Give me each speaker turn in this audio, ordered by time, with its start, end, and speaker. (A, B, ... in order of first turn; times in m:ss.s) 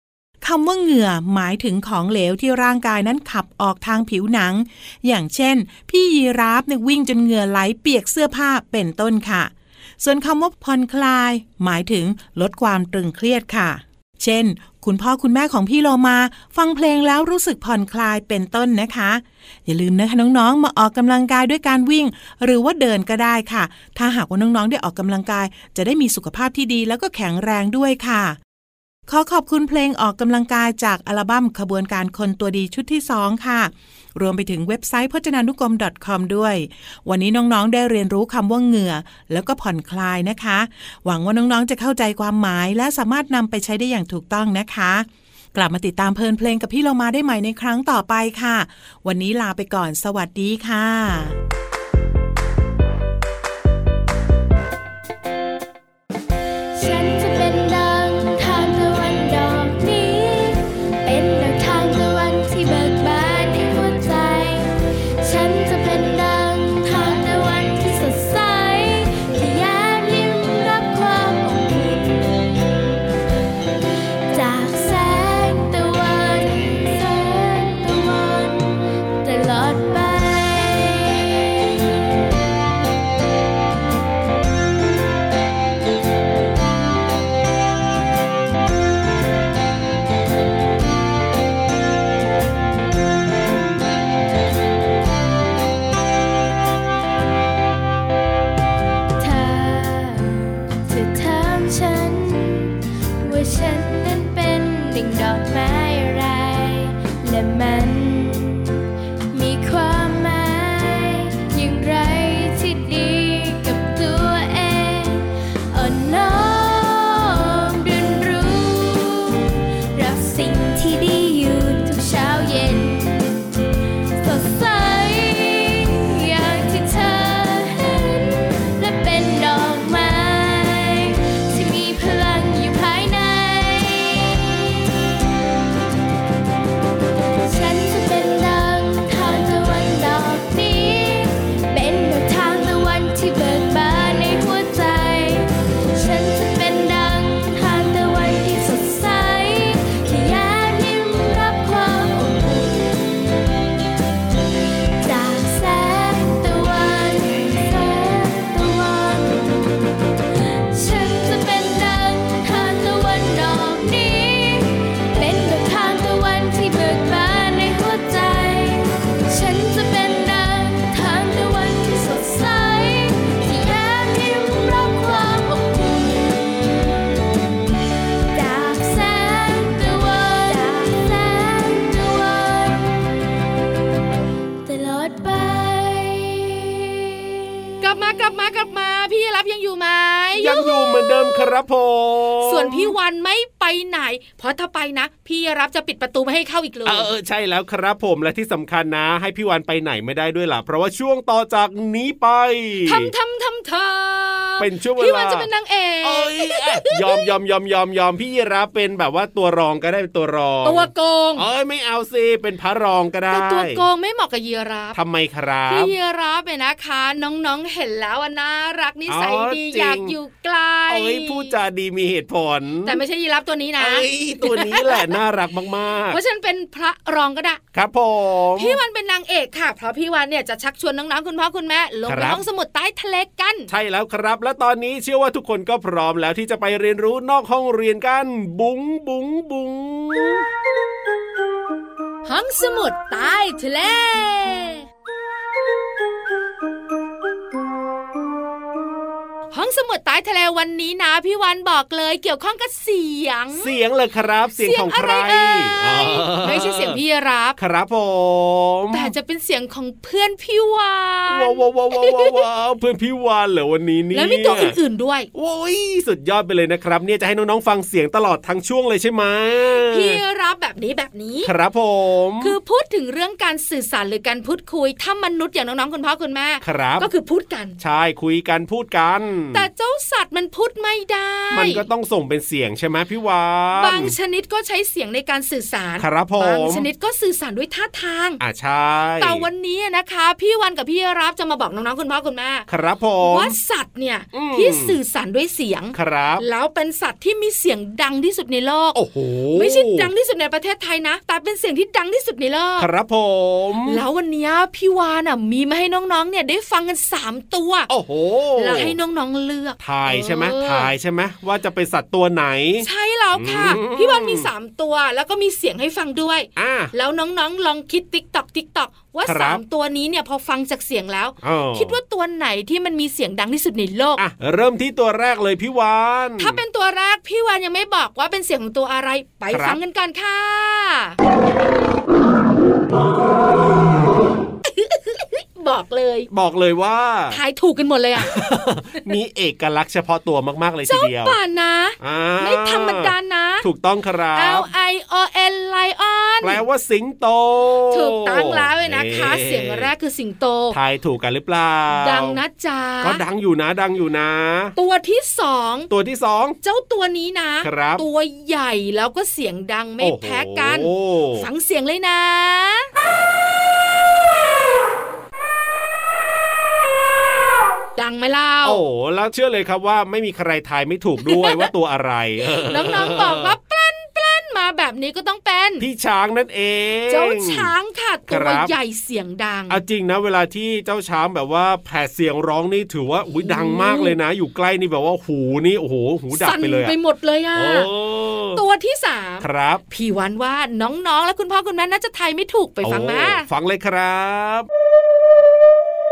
0:00.4-0:28.4 A
0:29.1-0:51.4 A
0:56.8-1:12.6 B
1:14.3-1:21.6 B
1:39.2-1:48.7 B
1:49.3-2:03.4 B
2:04.2-2:14.6 B
2:17.4-2:33.0 B
2:35.0-2:39.7 B
2:40.7-2:56.8 B
2:58.3-3:03.1 B
3:04.6-3:07.0 B
3:07.8-3:11.5 C
3:10.4-3:12.9 D
3:12.4-3:17.1 C
3:16.8-3:23.1 D
3:22.8-3:27.3 C
3:24.6-3:25.5 D
3:26.0-3:33.8 D
3:30.6-3:31.4 C
3:33.3-3:35.0 C
3:34.9-3:35.9 D
3:35.7-3:41.5 C
3:39.1-3:40.1 D
3:40.9-3:43.0 D
3:42.8-3:45.2 C
3:43.8-3:46.2 D
3:46.1-3:47.6 C
3:47.7-3:48.8 D
3:48.6-3:53.7 C
3:52.1-3:52.4 D
3:53.7-4:00.4 D
4:02.2-4:04.8 C
4:09.5-4:13.7 C
4:13.6-4:17.0 D
4:14.6-4:17.6 C
4:17.6-4:19.1 D
4:18.9-4:22.4 C
4:21.3-4:24.8 D
4:24.1-4:25.3 C
4:25.3-4:30.2 D
4:29.8-4:31.5 C
4:31.4-4:32.5 D
4:32.4-4:37.8 C
4:36.6-4:37.1 D
4:37.8-4:39.7 D
4:39.5-4:41.8 C
4:41.5-4:44.1 D
4:43.7-4:48.4 C
4:46.0-4:46.9 D
4:48.4-4:49.4 D
4:49.2-4:52.6 C
4:52.7-4:53.5 D
4:53.2-4:59.0 C
4:54.3-4:55.0 D
4:55.9-4:56.4 D
4:58.9-5:00.1 D
4:59.5-5:02.9 C
5:02.8-5:04.0 D
5:03.9-5:07.9 C
5:07.9-5:09.0 D
5:08.6-5:10.9 C
5:09.8-5:14.5 D
5:12.8-5:24.2 C
5:16.6-5:16.9 D
5:19.2-5:19.6 D
5:21.4-5:22.0 D
5:24.2-5:26.6 D
5:26.4-5:31.2 C
5:29.5-5:29.8 D
5:34.6-5:36.3 C
5:36.3-5:37.4 D
5:37.3-5:38.4 C
5:38.2-5:41.4 D
5:40.9-5:43.6 C
5:42.0-5:44.7 D
5:44.3-5:46.6 C
5:46.4-5:49.9 D
5:47.9-5:50.8 C
5:50.7-5:52.4 D
5:52.0-5:53.2 C
5:53.0-5:54.7 D
5:54.8-5:55.9 C
5:55.9-5:56.6 D
5:56.6-6:02.9 C
5:57.6-5:58.0 D
6:00.0-6:01.5 D
6:07.9-6:08.8 C
6:08.6-6:13.5 D
6:11.3-6:11.7 C
6:12.6-6:15.8 C
6:15.8-6:17.7 D
6:17.1-6:19.8 C
6:18.3-6:18.7 D
6:19.7-6:26.9 D
6:23.4-6:24.1 C
6:26.3-6:27.9 C
6:27.5-6:28.6 D
6:28.5-6:33.4 C
6:29.4-6:29.8 D
6:32.8-6:34.7 D